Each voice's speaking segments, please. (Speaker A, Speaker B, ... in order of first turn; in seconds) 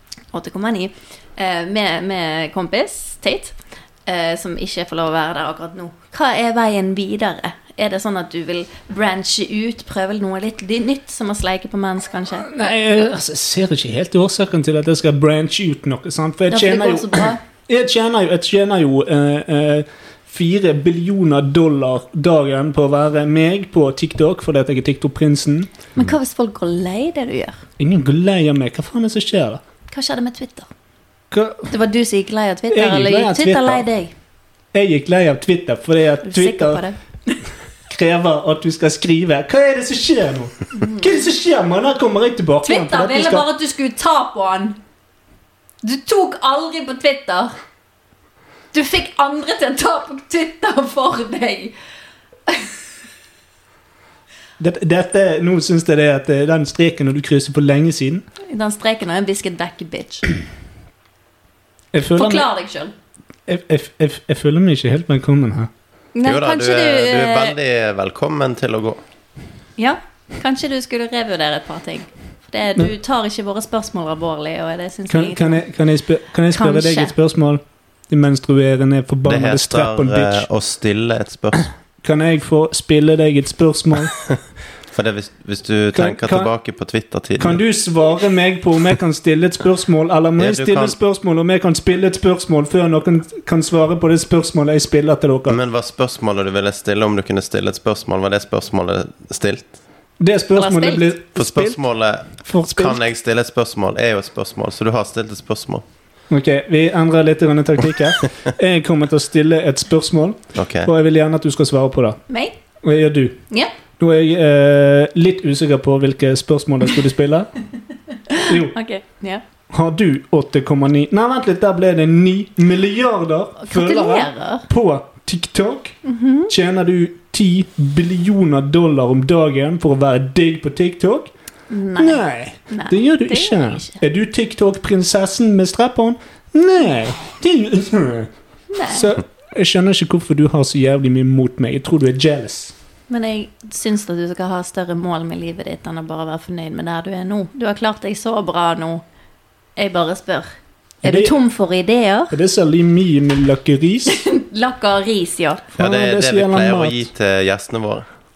Speaker A: 0.3-12.5, 16.5-17.4, 25.9-27.6, 29.9-30.7, 31.7-34.1, 36.2-37.4, 40.7-41.3, 42.6-44.8, 45.8-47.5, 48.7-51.7, 58.5-60.3, 62.1-62.9, 66.1-67.5, 69.8-75.6, 76.5-77.1, 100.5-101.2, 112.3-112.5, 118.3-119.4, 123.6-124.7, 126.0-126.5, 131.7-134.0, 138.7-139.1, 143.1-149.0, 149.8-150.5, 151.0-152.3, 154.1-155.6
Speaker B: 12.4-25.7, 27.8-29.6, 31.3-31.7, 32.7-33.8, 34.7-36.8, 37.9-43.5, 54.6-58.2, 61.9-62.5, 63.5-65.7, 75.1-80.4, 82.0-84.1, 85.9-86.5, 87.4-95.6, 100.2-101.8, 102.4-103.0, 106.3-112.2, 112.8-113.4, 114.0-117.5, 118.5-118.7, 119.7-126.0, 126.5-131.3, 132.0-138.3, 138.9-142.7, 151.0-151.3, 152.3-154.2, 155.8-157.0
Speaker C: 66.2-69.0, 79.2-81.7, 84.9-87.6, 90.4-91.0, 95.5-99.7, 101.3-105.8, 110.5-110.9, 155.8-158.1